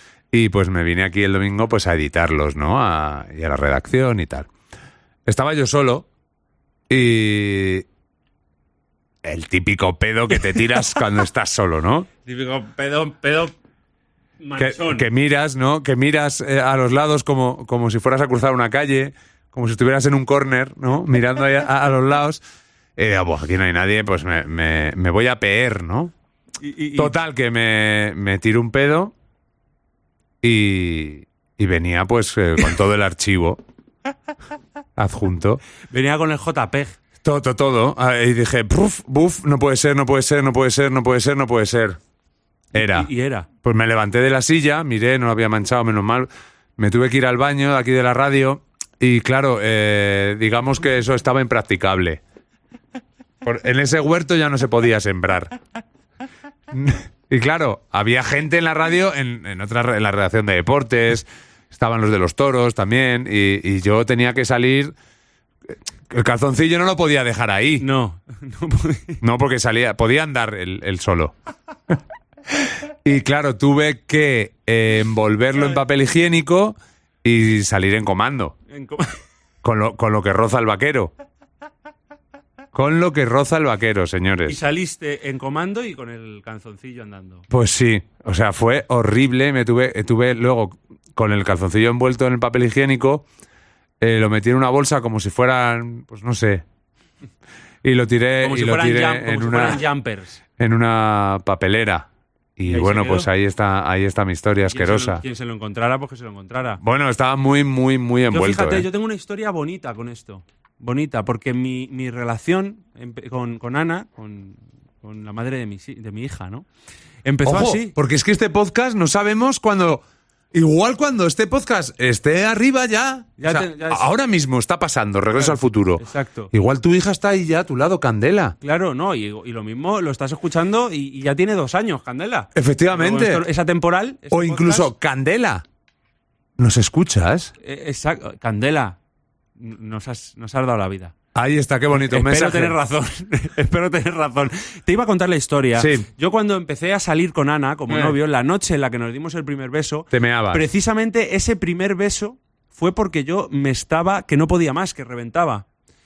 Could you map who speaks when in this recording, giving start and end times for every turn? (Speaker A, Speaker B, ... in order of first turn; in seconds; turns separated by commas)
Speaker A: 0.3-4.5, Speaker A: 5.2-6.1, Speaker A: 6.9-7.8, Speaker A: 9.2-12.1, Speaker B: 10.4-10.8, Speaker B: 12.2-13.5, Speaker B: 14.4-15.1, Speaker A: 14.6-22.4, Speaker A: 23.0-26.1, Speaker B: 26.6-27.1, Speaker A: 27.0-29.1, Speaker A: 30.4-33.6, Speaker A: 35.0-35.6, Speaker B: 35.9-37.0, Speaker A: 37.2-42.0, Speaker A: 42.7-43.1, Speaker B: 42.7-43.5, Speaker A: 43.6-52.2, Speaker A: 53.4-55.6, Speaker A: 56.7-64.9, Speaker A: 66.1-67.8, Speaker B: 67.8-69.2, Speaker A: 69.2-71.3, Speaker A: 72.6-78.5, Speaker B: 78.7-79.2, Speaker A: 79.6-81.1, Speaker A: 82.7-84.6, Speaker B: 84.5-87.4, Speaker A: 87.5-93.2, Speaker A: 94.0-96.6, Speaker A: 97.8-99.8, Speaker B: 98.4-100.4, Speaker A: 100.6-105.2, Speaker B: 102.7-103.3, Speaker B: 104.7-106.8, Speaker A: 106.8-108.9, Speaker B: 108.3-116.7, Speaker B: 117.2-117.9, Speaker A: 117.4-128.6, Speaker B: 123.4-124.1, Speaker B: 125.3-126.5, Speaker B: 128.6-134.9, Speaker A: 132.5-133.4, Speaker A: 134.3-135.6, Speaker A: 136.6-137.5, Speaker B: 137.6-139.0, Speaker B: 139.6-141.1, Speaker A: 141.3-142.8, Speaker B: 141.9-155.7, Speaker A: 145.7-146.1, Speaker A: 147.9-148.1, Speaker A: 150.1-150.6